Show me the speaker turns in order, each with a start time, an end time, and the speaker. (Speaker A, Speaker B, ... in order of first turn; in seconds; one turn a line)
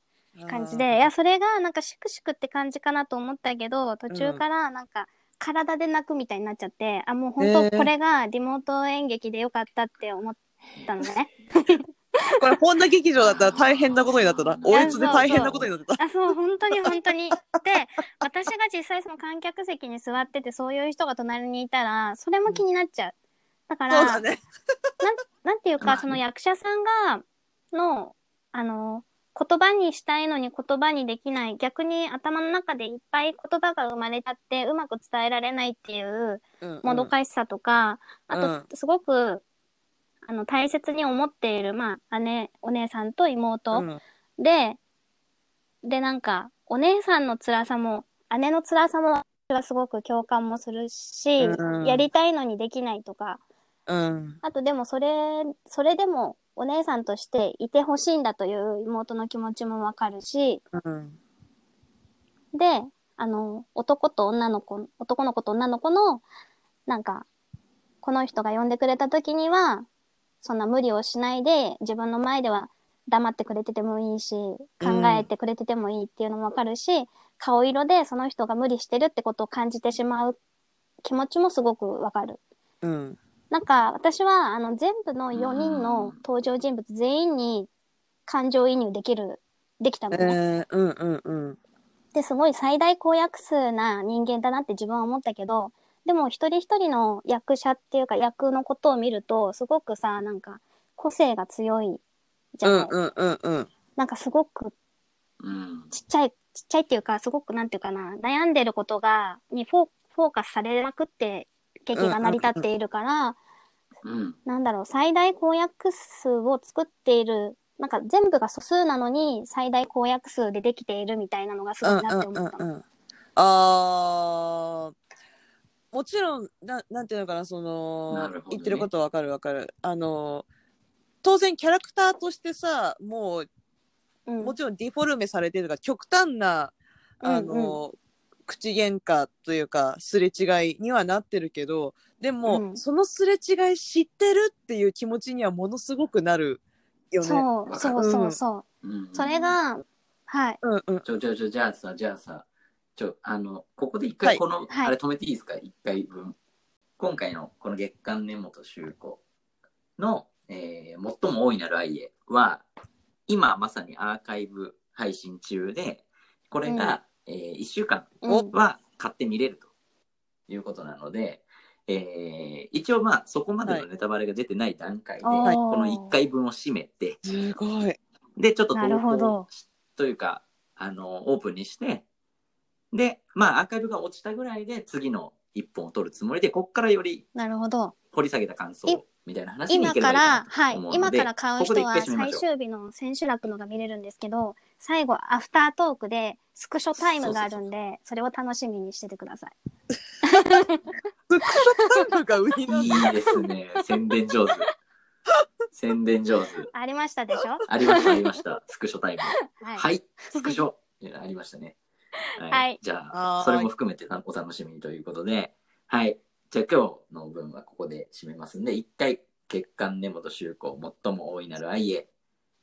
Speaker A: 0.3-1.1
Speaker B: 0.5-12.3
Speaker A: 4.1-4.4
Speaker A: 7.4-7.9
Speaker A: 12.4-16.0
Speaker C: 13.2-15.7
Speaker B: 14.7-23.1
Speaker B: 23.7-24.2
Speaker A: 23.9-24.4
Speaker B: 25.0-39.4
Speaker C: 25.8-26.2
Speaker A: 36.6-37.1
Speaker A: 38.3-38.6
Speaker B: 40.2-44.8
Speaker A: 43.7-44.0
Speaker B: 45.8-53.4
Speaker A: 51.4-52.1
Speaker A: 53.9-54.4
Speaker B: 54.4-60.6
Speaker A: 60.7-61.2
Speaker B: 62.5-66.2
Speaker B: 66.9-67.3
Speaker B: 68.0-69.9
Speaker B: 70.4-80.4
Speaker A: 74.8-75.3
Speaker B: 81.0-82.4
Speaker A: 82.8-83.2
Speaker B: 83.5-87.7
Speaker C: 85.3-86.2
Speaker B: 88.3-90.4
Speaker A: 90.1-91.6
Speaker B: 92.1-102.0
Speaker B: 102.5-103.0
Speaker A: 102.6-103.7
Speaker B: 104.0-104.7
Speaker C: 105.4-105.9
Speaker B: 105.9-113.4
Speaker A: 111.9-112.7
Speaker C: 114.0-114.4
Speaker B: 114.5-122.7
Speaker A: 121.8-122.8
Speaker A: 123.3-124.9
Speaker A: 125.9-130.4
Speaker C: 128.1-128.9
Speaker A: 131.2-133.5
Speaker B: 134.2-134.6
Speaker A: 134.4-137.9
Speaker B: 137.2-137.8
Speaker A: 138.5-148.4
Speaker B: 142.4-142.8
Speaker B: 147.2-150.6
Speaker C: 147.7-148.0
Speaker C: 148.8-149.6
Speaker A: 150.6-151.1
Speaker C: 151.0-156.3
Speaker C: 157.0-159.2
Speaker C: 160.0-162.6
Speaker C: 163.3-169.7
Speaker B: 166.7-167.0
Speaker B: 168.2-168.5
Speaker C: 170.5-177.2
Speaker B: 175.2-176.2
Speaker A: 177.2-178.0
Speaker C: 178.4-182.0
Speaker B: 178.7-179.5
Speaker C: 182.9-187.2
Speaker B: 187.3-187.9
Speaker C: 188.1-192.4
Speaker B: 189.7-199.5
Speaker C: 197.0-197.7
Speaker B: 200.2-200.8
Speaker A: 201.3-203.1
Speaker C: 202.7-204.7
Speaker C: 205.7-206.7
Speaker B: 206.7-208.3
Speaker C: 207.7-211.8
Speaker B: 209.5-210.6
Speaker C: 212.3-222.1
Speaker B: 212.5-212.8
Speaker A: 213.1-213.7